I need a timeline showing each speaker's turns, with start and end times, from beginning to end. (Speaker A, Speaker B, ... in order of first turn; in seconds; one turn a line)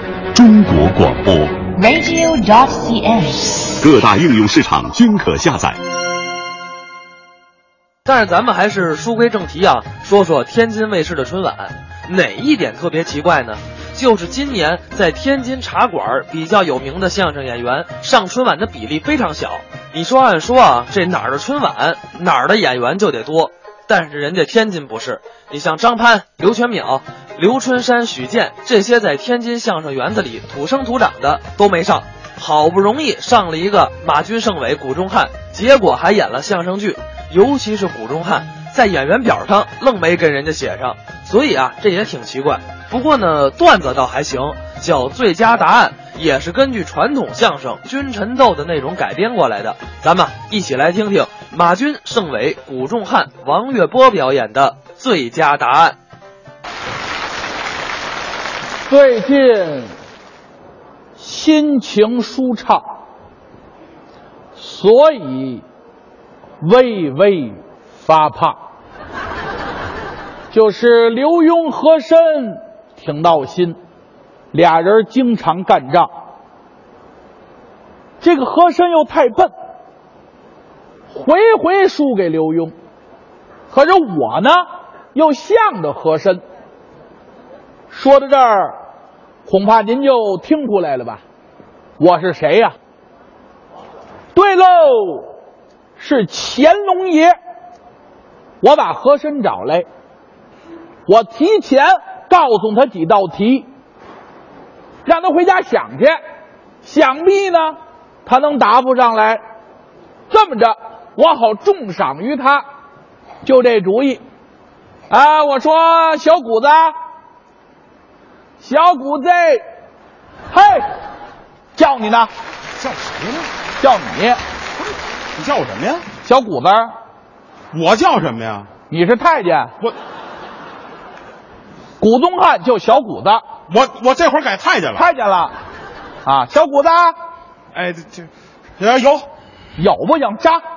Speaker A: 0.3-1.6
Speaker B: 1.7-3.8
Speaker A: 3.8-5.8
Speaker C: 8.0-56.0
Speaker D: 58.9-59.9
Speaker D: 61.2-62.8
Speaker D: 64.5-65.6
Speaker D: 66.6-68.6
Speaker D: 70.5-73.8
Speaker D: 74.5-76.1
Speaker D: 78.2-79.5
Speaker D: 81.1-82.7
Speaker D: 83.7-84.6
Speaker D: 85.1-86.4
Speaker D: 87.9-88.7
Speaker D: 89.5-91.2
Speaker D: 92.0-92.7
Speaker D: 94.3-95.3
Speaker D: 96.0-97.3
Speaker D: 98.6-99.9
Speaker D: 101.0-103.7
Speaker D: 105.0-106.2
Speaker D: 106.8-109.4
Speaker D: 110.3-112.6
Speaker D: 113.4-114.2
Speaker D: 115.1-116.9
Speaker D: 118.6-119.6
Speaker D: 120.5-120.8
Speaker D: 121.8-122.3
Speaker D: 123.8-124.4
Speaker E: 125.4-126.0
Speaker D: 126.2-126.9
Speaker E: 127.7-128.7
Speaker D: 128.9-129.7
Speaker D: 132.0-133.4
Speaker E: 133.7-135.0
Speaker D: 134.9-135.5
Speaker D: 136.2-137.2
Speaker E: 137.7-138.3
Speaker E: 138.8-139.2
Speaker D: 139.8-140.6